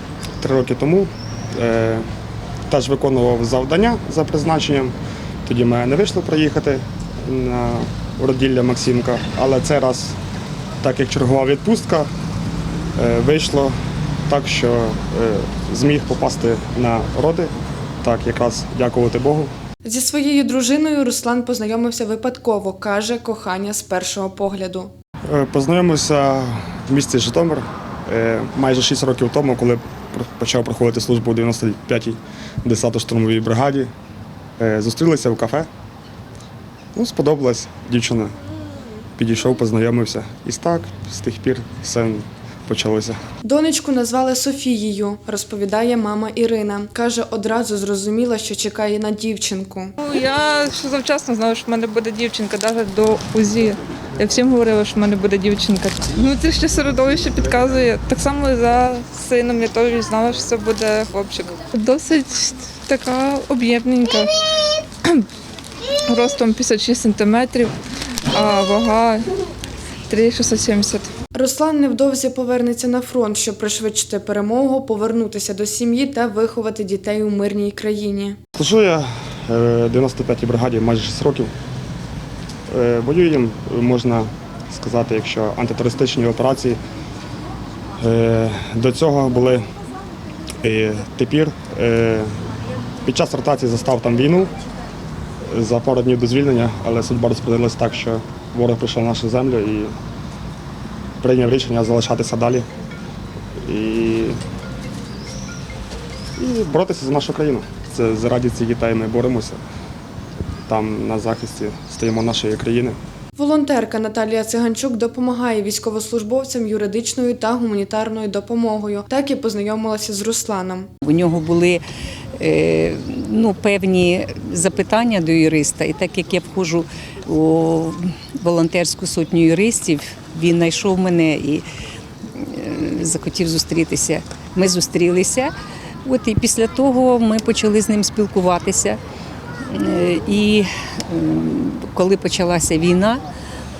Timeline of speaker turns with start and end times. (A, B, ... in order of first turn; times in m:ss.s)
0:00.4-0:02.0 A
0:02.7-0:10.2 A
0:10.8-0:12.1 A
0:13.0-0:13.8 A
0:14.3-0:19.5 A
0:19.8-0:24.9 B
0:25.3-0:33.9 A
0:34.6-0:35.7 A
0:37.0-0:38.3 A
0:39.2-0:43.2 A
0:43.4-0:50.0 B
0:50.0-1:04.4 C
1:04.9-1:05.3 C
1:06.1-1:07.7 C
1:08.3-1:09.3 C
1:10.1-1:11.1 C
1:11.3-1:18.4 B
1:18.6-1:21.5 A
1:22.7-1:26.8 A
1:28.0-1:29.7 A
1:30.6-1:32.3 A
1:33.0-1:34.5 A
1:35.5-1:39.9 A
1:41.2-1:42.7 A
1:43.6-1:44.4 A
1:46.4-1:49.6 A
1:50.7-1:53.0 A
1:53.4-2:00.9 B
2:01.0-2:01.8 D
2:02.4-2:11.6 D
2:12.3-2:15.5 D
2:16.0-2:19.0 D
2:19.7-2:23.2 D